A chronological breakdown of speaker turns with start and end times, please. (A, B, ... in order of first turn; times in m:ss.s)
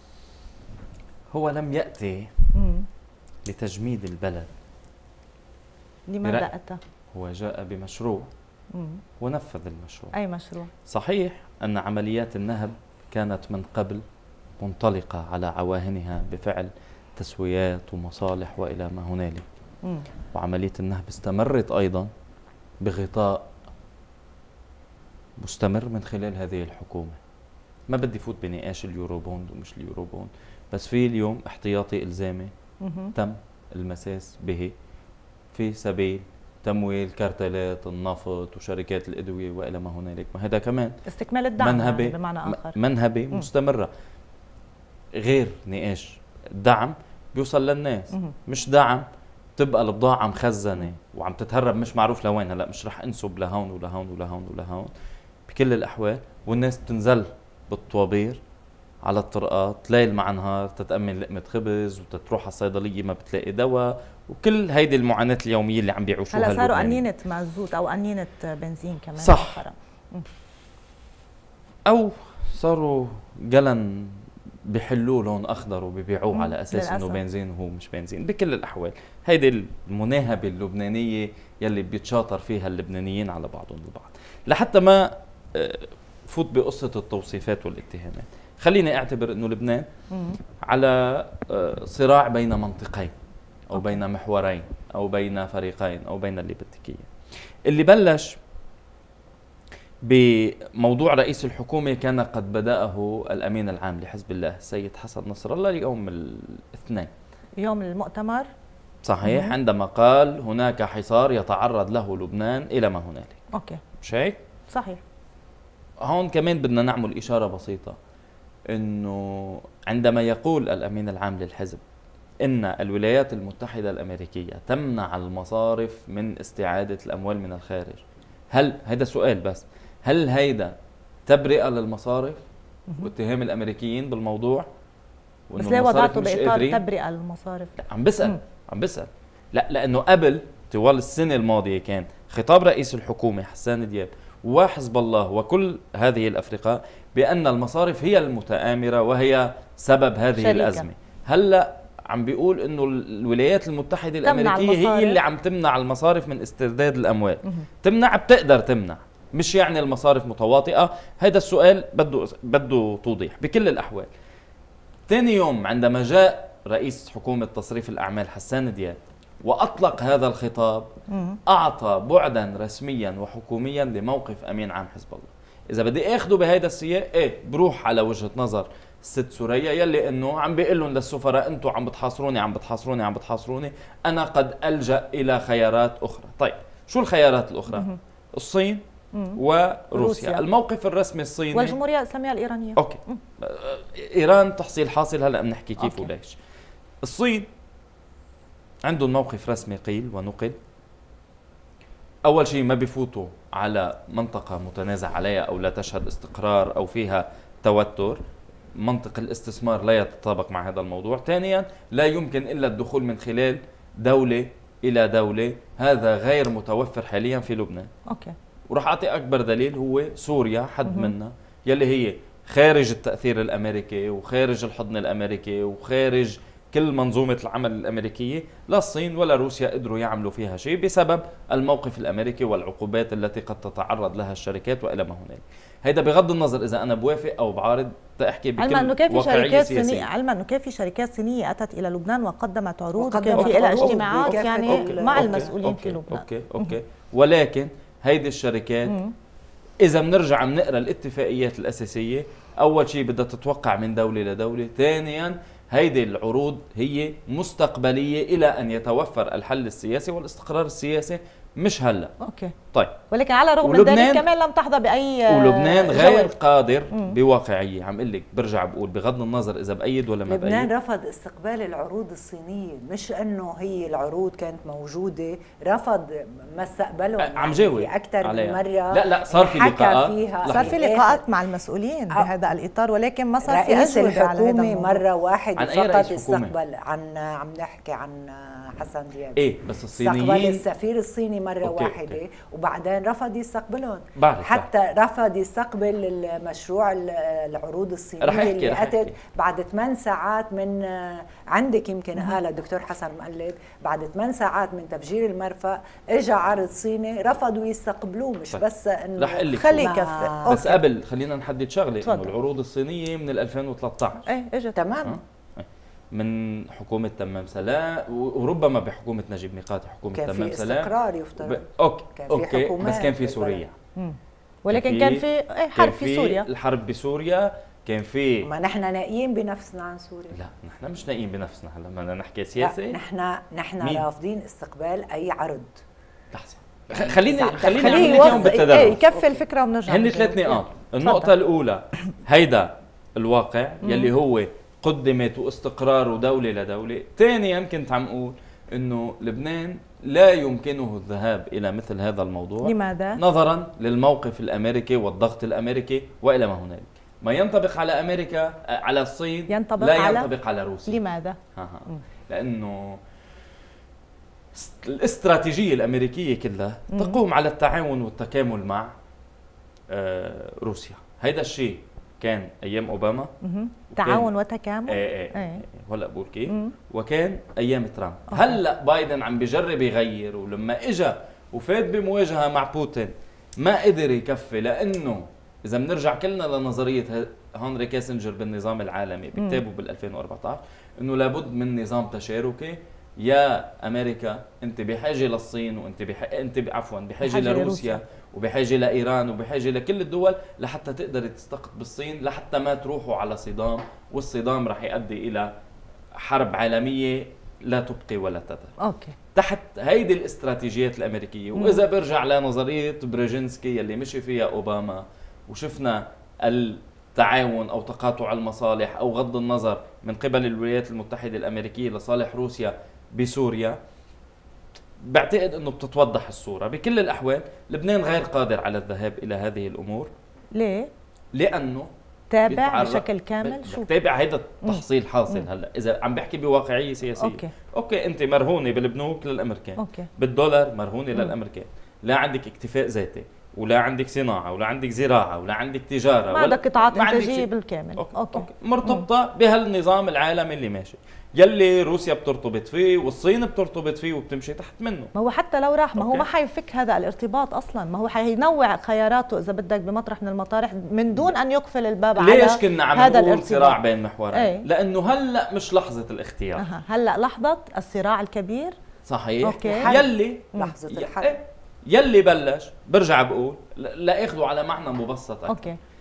0:01.3-0:02.3 A
0:02.5-0:02.8 B
0:03.4-0:04.5 A
0:06.1-0:06.8 B
0:07.1-0:08.3 A
0:08.7-0:09.0 B
0:09.2-0:10.1 A
0:10.1-0:10.7 B
0:10.8-0:14.0 A
0:14.6-0:19.4 A
0:20.3-0:22.1 A
0:22.8-0:23.4 A
0:25.4-0:27.2 A
0:27.9-0:32.5 A
0:32.8-0:33.1 B
0:33.1-0:34.7 A
0:35.5-0:41.0 A
0:41.0-0:42.7 B
0:41.6-0:43.9 A
0:45.2-0:49.0 A
0:49.6-0:54.9 A
0:55.5-0:58.4 A
0:59.0-1:07.0 A
1:06.3-1:10.2 B
1:09.2-1:09.6 A
1:11.8-1:29.9 A
1:16.3-1:17.2 B
1:30.1-1:30.4 B
1:30.6-1:33.1 A
1:33.7-1:37.1 A
1:37.6-1:38.4 A
1:40.0-1:47.1 A
1:47.6-1:48.5 B
1:49.0-1:53.4 A
1:49.2-1:49.5 B
1:53.5-1:53.8 B
1:54.0-1:54.4 A
1:54.7-1:55.0 B
1:56.0-1:58.0 A
1:58.7-2:01.8 A
2:02.4-2:10.7 A
2:11.2-2:12.4 A
2:13.0-2:14.6 A
2:15.5-2:16.8 A
2:15.6-2:17.7 B
2:17.8-2:44.1 A
2:30.4-2:30.8 B
2:34.2-2:35.2 B
2:45.1-2:50.9 A
2:51.1-2:51.4 B
2:51.5-3:08.8 A
3:09.3-3:11.8 A
3:09.9-3:10.4 B
3:11.5-3:13.2 B
3:12.8-3:16.3 A
3:15.8-3:16.1 B
3:17.0-3:17.4 A
3:18.8-3:20.6 A
3:22.2-3:28.2 A
3:28.8-3:37.9 A
3:38.1-3:38.3 B
3:38.7-4:00.1 A
3:58.6-4:06.7 B
4:03.0-4:05.5 C
4:03.4-4:08.9 A
4:08.9-4:09.1 B
4:09.8-4:22.1 A
4:22.2-4:22.5 B
4:23.1-4:26.3 B
4:23.6-4:24.2 A
4:25.3-4:30.7 A
4:30.2-4:41.3 C
4:37.2-4:40.8 A
4:40.5-4:45.0 B
4:43.4-4:49.4 C
4:45.6-4:46.5 A
4:49.4-4:50.6 A
4:50.0-5:10.6 C
4:51.6-4:52.2 A
4:54.2-4:54.7 A
4:58.2-4:59.1 A
5:09.2-5:14.2 A
5:09.5-5:10.8 B
5:12.0-5:12.3 B
5:14.2-5:14.8 B
5:14.7-5:15.2 C
5:15.0-5:23.7 A
5:20.1-5:21.6 C
5:22.2-5:23.6 C
5:24.0-5:26.4 B
5:24.7-5:25.2 A
5:25.8-5:28.5 A
5:28.4-5:30.4 C
5:30.3-5:33.0 A
5:32.6-5:35.8 C
5:36.3-5:39.0 A
5:36.9-5:39.4 C
5:37.8-5:41.3 B
5:39.9-6:01.0 A
5:43.8-5:44.1 B
5:52.6-5:53.2 B
5:59.5-6:00.3 B
6:00.9-6:02.0 B
6:01.5-6:03.0 A
6:04.5-6:08.9 A
6:09.9-6:13.3 A
6:13.4-6:15.6 B
6:14.0-6:14.3 A
6:14.9-6:45.5 A
6:18.3-6:18.6 B
6:37.2-6:38.0 B
6:46.1-6:48.7 A
6:48.8-6:49.1 B
6:49.3-7:03.8 A
6:51.6-6:51.8 B
7:05.0-7:10.1 A
7:10.5-7:10.9 B
7:11.3-7:11.9 A
7:12.3-7:13.9 B
7:12.5-7:35.1 A
7:14.6-7:15.4 B
7:17.2-7:17.5 B
7:19.8-7:20.1 B
7:26.3-7:29.0 B
7:35.1-7:43.8 B
7:36.0-7:36.2 A
7:42.2-7:46.6 A
7:44.3-7:44.6 B
7:46.6-7:48.7 B
7:49.1-7:55.6 A
7:49.4-7:49.9 B
7:49.7-7:51.3 C
7:55.5-7:55.8 B